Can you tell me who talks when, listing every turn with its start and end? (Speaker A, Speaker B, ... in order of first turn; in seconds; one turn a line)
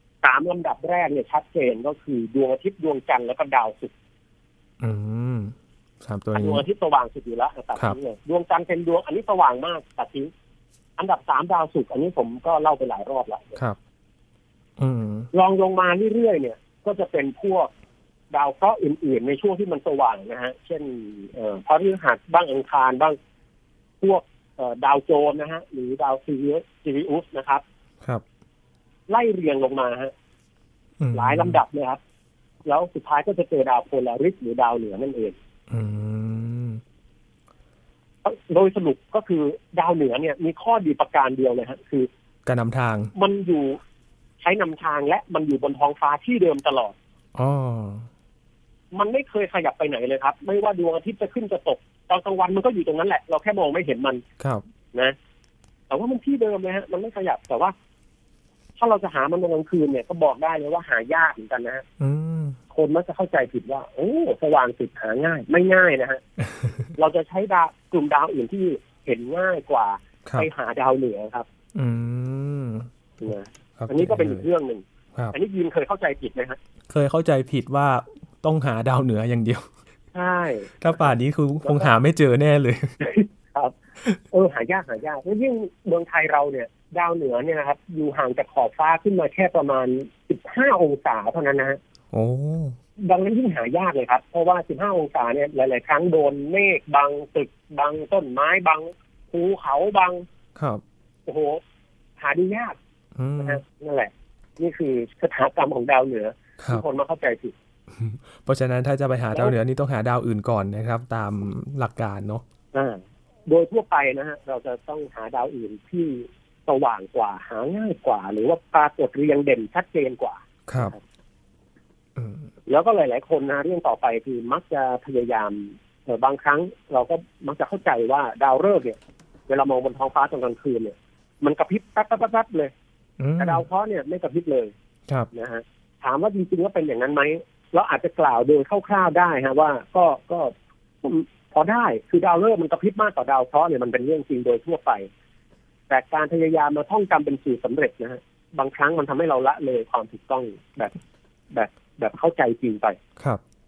Speaker A: 0.2-3.9
Speaker B: 4.8-6.6
Speaker A: 6.3-10.3
Speaker A: 11.0-13.6
Speaker B: 14.8-15.3
Speaker A: 15.3-17.7
Speaker A: 18.3-23.2
Speaker A: 24.0-27.6
Speaker A: 29.1-30.1
Speaker B: 31.0-31.6
Speaker A: 31.1-32.0
Speaker A: 32.6-35.4
Speaker B: 35.7-36.8
Speaker A: 38.2-42.1
Speaker B: 42.5-43.1
Speaker A: 43.1-43.8
Speaker A: 44.4-47.0
Speaker B: 47.4-48.1
Speaker A: 48.9-54.2
Speaker A: 55.9-57.7
Speaker A: 58.8-61.9
Speaker B: 62.0-62.6
Speaker A: 62.7-66.2
Speaker B: 66.4-66.9
Speaker A: 67.0-71.5
Speaker B: 71.8-72.9
Speaker A: 73.2-76.6
Speaker B: 73.8-74.4
Speaker B: 76.9-79.7
Speaker A: 80.1-81.1
Speaker B: 80.8-83.0
Speaker A: 81.6-81.9
Speaker A: 83.0-83.8
Speaker A: 84.3-91.8
Speaker B: 92.1-92.8
Speaker A: 93.0-100.2
Speaker B: 100.5-100.8
Speaker A: 101.2-101.6
Speaker A: 102.2-102.8
Speaker B: 103.2-103.6
Speaker A: 103.4-107.5
Speaker B: 106.6-106.8
Speaker B: 107.9-112.4
Speaker A: 112.7-121.0
Speaker B: 120.7-120.9
Speaker B: 122.2-122.5
Speaker A: 122.7-129.0
Speaker A: 129.5-132.7
Speaker B: 133.2-133.6
Speaker A: 133.4-134.7
Speaker A: 135.3-145.1
Speaker A: 145.9-150.9
Speaker A: 151.5-153.0